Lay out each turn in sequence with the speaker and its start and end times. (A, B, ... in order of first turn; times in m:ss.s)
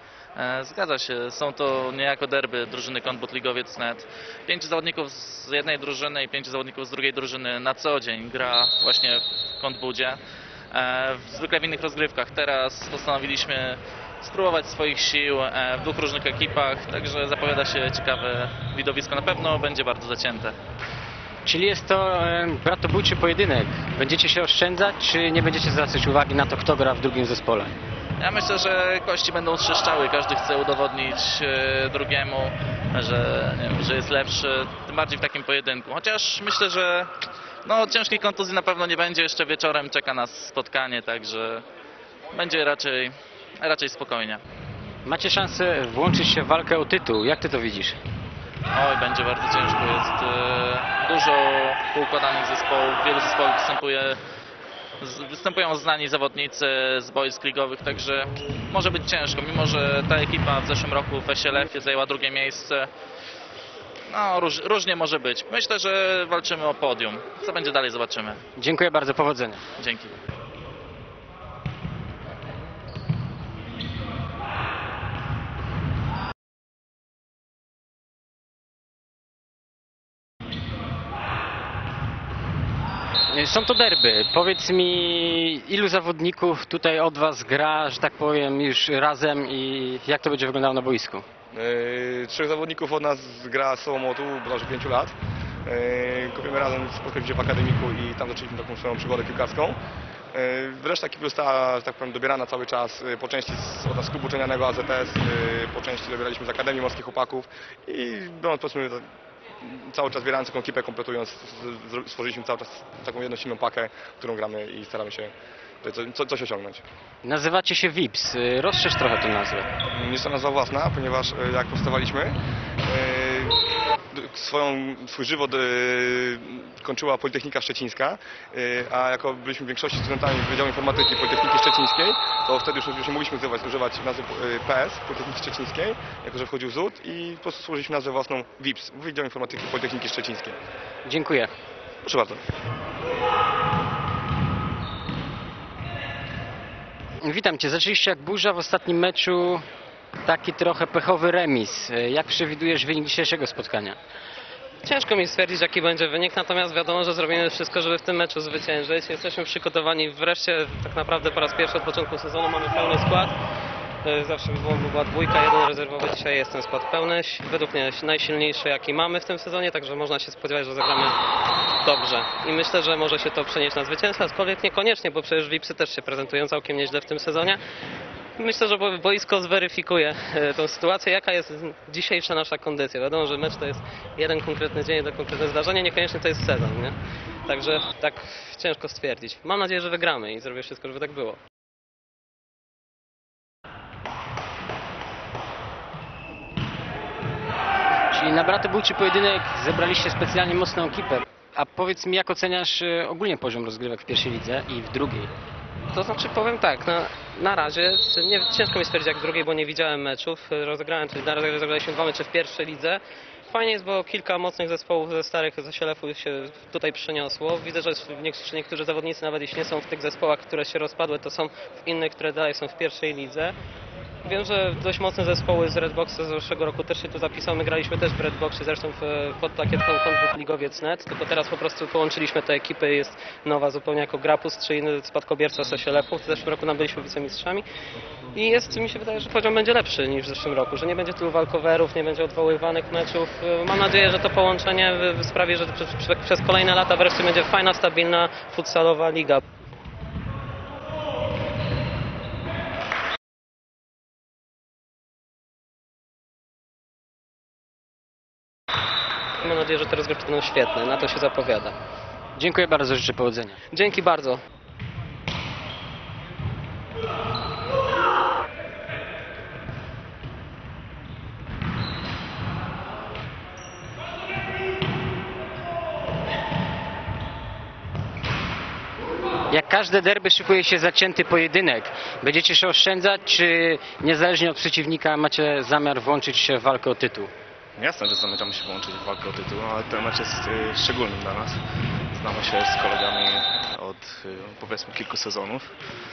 0:00.4-0:10.2 A
0:10.7-0:20.6 A
0:21.4-0:27.7 B
0:28.2-0:37.1 A
0:37.7-0:41.6 A
0:42.3-0:44.4 A
0:45.0-0:48.0 B
0:48.7-0:54.2 A
0:55.0-1:02.9 A
1:04.1-1:08.4 A
1:08.6-1:09.6 B
1:09.8-1:10.2 A
1:23.3-1:31.2 B
1:31.5-1:39.8 C
1:40.3-1:49.0 C
1:49.6-1:56.8 C
1:57.2-1:59.7 B
1:59.9-2:20.6 C
2:21.0-2:21.5 B
2:22.0-2:22.4 C
2:27.2-2:29.6 B
2:30.2-2:34.0 B
2:34.8-2:43.3 D
2:44.0-2:51.2 D
2:51.7-2:57.6 D
2:58.4-3:11.4 D
3:18.1-3:25.3 B
3:25.9-3:43.5 D
3:44.2-3:57.6 D
3:58.3-4:09.4 D
4:19.4-4:21.8 D
4:22.4-4:23.6 B
4:23.7-4:24.4 D
4:39.5-4:47.3 B
4:47.8-4:55.7 E